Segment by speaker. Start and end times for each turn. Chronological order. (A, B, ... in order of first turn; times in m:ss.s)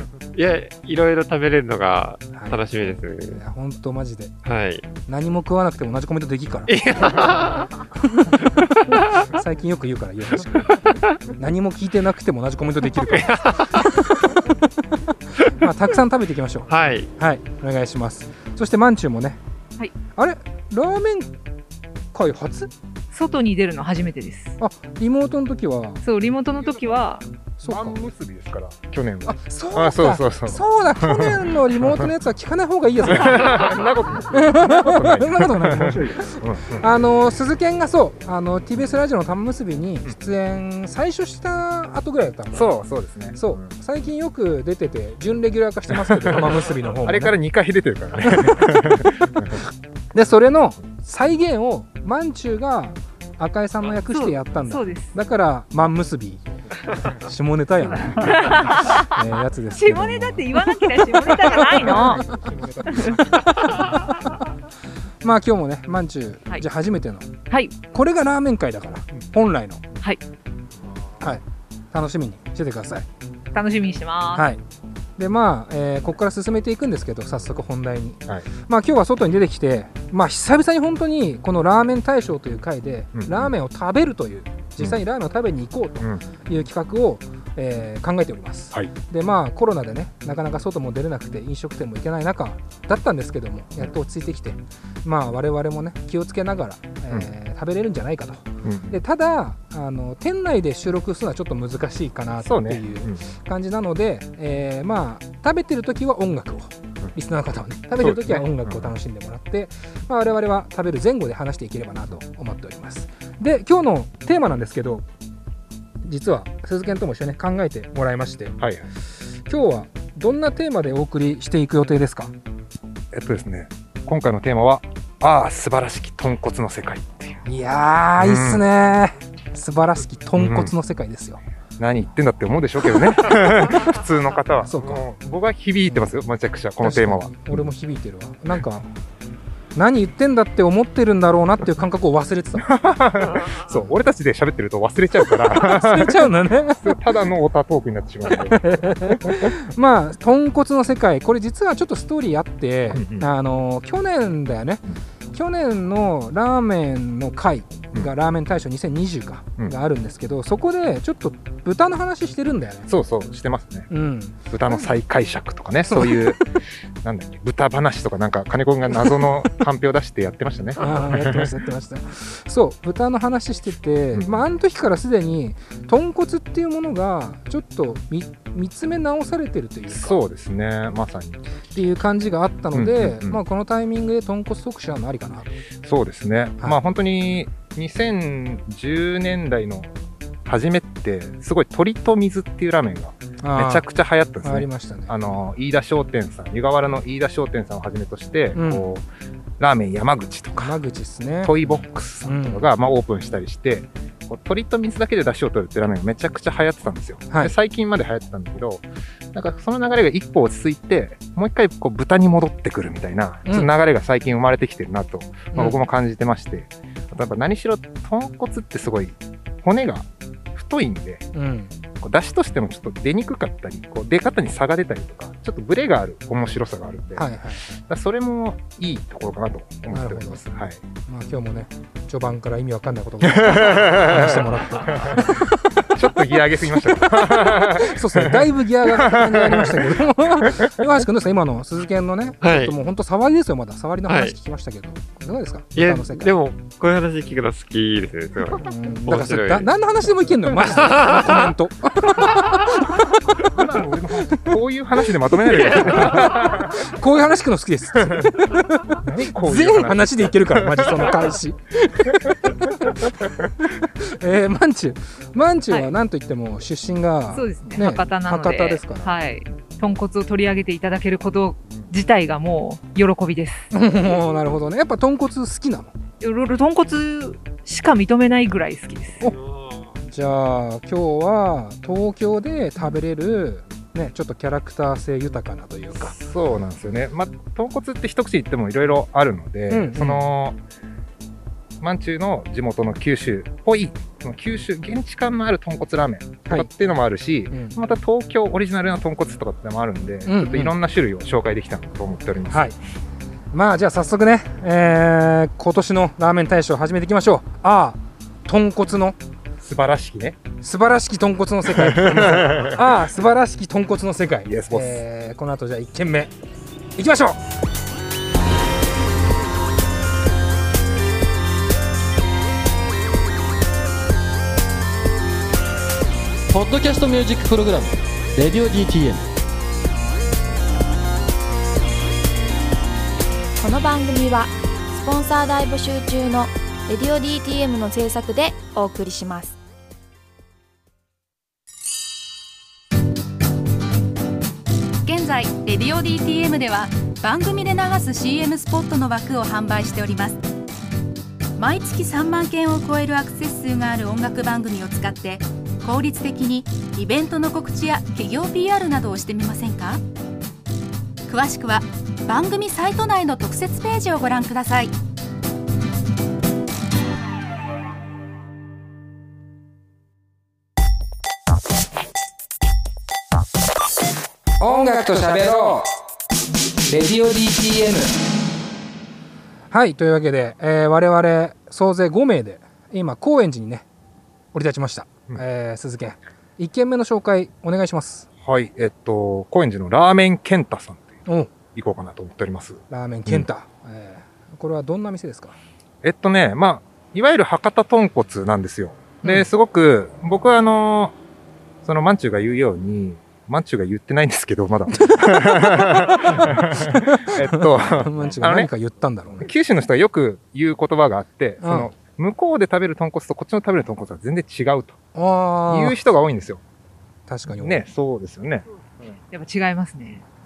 0:00.3-0:03.4 A
0:02.3-0:02.6 B
0:03.3-0:04.3 B
0:04.4-0:04.9 A
0:05.1-0:06.8 B
0:06.7-0:07.7 A
0:08.2-0:10.8 B
0:11.4-0:13.6 B
0:13.1-0:14.0 A
0:15.4-0:19.4 B
0:16.7-0:17.1 A
0:20.2-0:21.3 B
0:22.1-0:22.7 B
0:23.1-0:24.6 C
0:24.6-0:26.0 B
0:26.0-0:27.2 C
0:27.6-0:28.0 B
0:27.6-0:32.1 D
0:29.2-0:33.7 B
0:33.0-0:36.9 D
0:34.3-0:42.7 B
0:42.5-0:43.7 D
0:43.4-0:47.4 B
0:45.9-0:49.6 D
0:48.2-0:49.4 B
0:50.1-0:56.4 B
0:54.1-0:55.1 C
0:57.0-1:04.3 B
0:58.1-1:02.2 C
1:02.9-1:03.4 C
1:05.2-1:07.3 B
1:07.5-1:07.8 C
1:07.8-1:09.8 B
1:11.2-1:13.1 B
1:13.5-1:14.5 C
1:14.3-1:14.6 B
1:15.2-1:55.0 B
1:23.2-1:23.5 D
1:38.6-1:39.0 D
1:42.4-1:43.2 D
1:48.0-1:49.0 D
1:56.0-1:58.6 B
1:58.6-1:58.9 D
1:59.5-2:02.3 B
2:03.1-2:07.4 D
2:07.4-2:11.4 B
2:08.2-2:08.7 D
2:10.4-2:10.7 D
2:11.8-2:17.6 D
2:14.7-2:15.0 B
2:16.8-2:18.9 B
2:19.8-2:22.7 B
2:22.6-2:29.5 D
2:25.5-2:27.0 B
2:28.5-2:42.9 B
2:32.9-2:33.3 D
2:42.9-2:43.9 D
2:43.9-2:44.4 B
2:44.5-2:51.5 D
2:45.9-2:46.4 B
2:50.8-3:00.2 B
2:54.1-2:54.4 D
2:59.9-3:01.4 D
3:01.7-3:05.5 B
3:02.7-3:03.4 D
3:05.8-3:09.9 D
3:10.5-3:19.0 D
3:13.4-3:13.8 B
3:14.4-3:15.1 B
3:18.6-3:18.9 B
3:19.6-3:20.8 D
3:20.6-3:22.7 B
3:21.4-3:41.3 D
3:41.3-3:41.7 B
3:42.0-3:50.8 D
3:47.2-3:47.7 B
3:49.9-3:50.4 B
3:51.1-3:55.8 B
3:53.3-3:55.4 D
3:55.9-4:00.7 D
3:57.0-4:06.3 B
4:02.4-4:02.8 A
4:04.1-4:04.4 A
4:05.8-4:09.7 A
4:08.6-4:13.5 B
4:10.8-4:11.4 A
4:13.4-4:16.8 D
4:15.8-4:29.2 B
4:19.0-4:21.3 D
4:27.3-4:33.7 C
4:33.7-4:35.9 B
4:36.2-4:39.3 C
4:39.2-4:39.9 A
4:40.1-4:46.2 B
4:46.0-4:50.6 D
4:49.7-4:50.3 B
4:51.8-5:02.7 D
4:57.5-4:57.8 B
5:00.2-5:00.8 B
5:02.5-5:02.8 B
5:03.5-5:09.2 B
5:09.6-5:10.4 D
5:10.6-5:16.3 B
5:11.7-5:12.8 D
5:14.4-5:15.0 D
5:17.0-5:17.4 B
5:26.5-5:29.3 E
5:33.6-5:39.6 F
5:45.0-5:50.4 G
5:51.6-6:00.0 G
6:01.3-6:05.0 G
6:14.6-6:16.0 B
6:16.8-6:18.1 B
6:19.7-6:23.9 B
6:24.5-6:28.3 B
6:28.4-6:31.2 D
6:31.7-6:33.5 D
6:32.9-6:35.6 B
6:36.0-6:41.2 D
6:41.8-6:48.7 D
6:45.0-6:49.5 B
6:49.4-6:55.0 D
6:51.6-6:51.9 B
6:55.2-6:56.0 B
6:55.7-6:56.6 D
6:57.3-6:57.9 B
6:57.5-6:59.2 D
6:59.3-7:00.2 C